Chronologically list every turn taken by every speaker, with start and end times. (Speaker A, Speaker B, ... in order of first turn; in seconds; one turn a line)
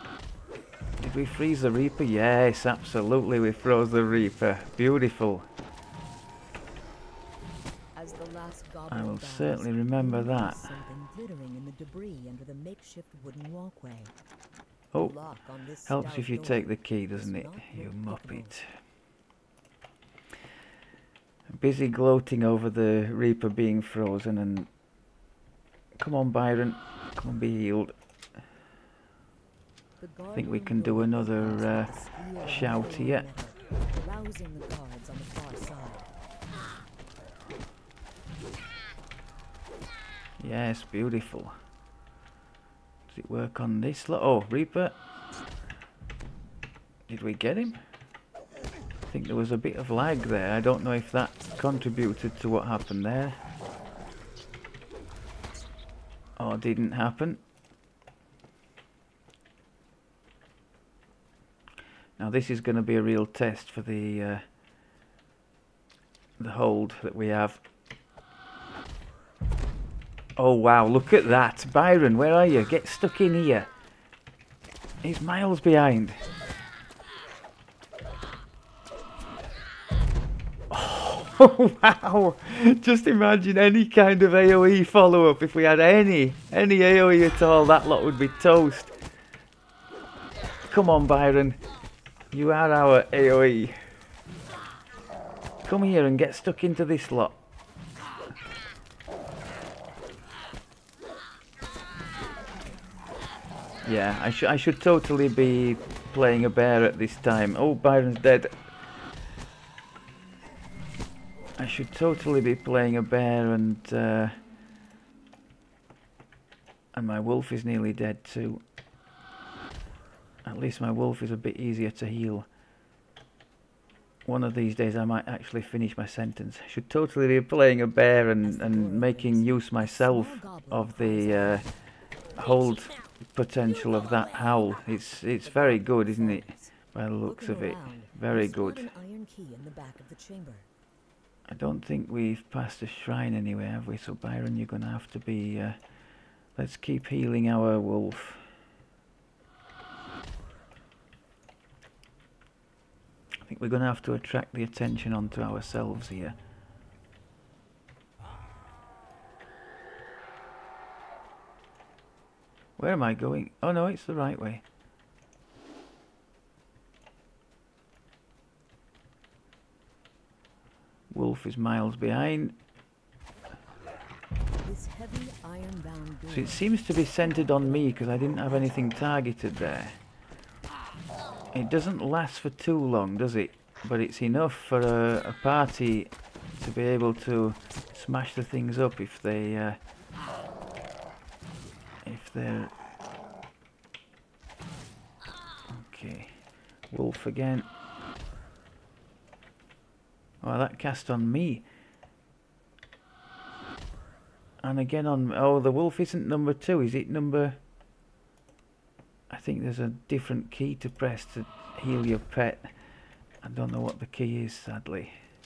Speaker A: 1.0-5.5
Speaker B: 7.9-14.2
Speaker A: 8.9-10.7
Speaker B: 15.0-18.5
Speaker A: 15.9-18.7
Speaker A: 21.5-24.7
Speaker A: 26.0-27.9
Speaker B: 30.0-36.1
Speaker A: 30.3-33.2
Speaker A: 40.4-41.5
Speaker A: 43.1-45.0
Speaker A: 47.1-47.8
Speaker A: 49.1-53.4
Speaker A: 56.4-57.4
Speaker A: 62.2-64.4
Speaker A: 66.4-67.6
Speaker A: 70.4-73.7
Speaker A: 75.0-76.2
Speaker A: 80.7-88.9
Speaker A: 90.7-91.6
Speaker A: 92.3-93.8
Speaker A: 95.6-97.4
Speaker A: 103.8-108.5
Speaker A: 111.6-114.3
Speaker A: 116.9-118.6
Speaker A: 120.4-122.5
Speaker A: 124.2-131.6
Speaker B: 128.4-131.7
Speaker A: 132.4-138.9
Speaker B: 135.4-140.7
Speaker A: 141.5-145.8
Speaker A: 146.6-148.4
Speaker A: 153.4-156.4
Speaker A: 162.8-164.6
Speaker A: 171.1-172.6
Speaker B: 174.6-179.1
Speaker A: 176.3-180.0
Speaker A: 181.5-189.8
Speaker A: 192.0-192.7
Speaker A: 195.7-196.4
Speaker A: 196.9-197.7
Speaker A: 200.4-201.6
Speaker A: 204.6-207.6
Speaker A: 209.3-212.7
Speaker A: 213.4-215.1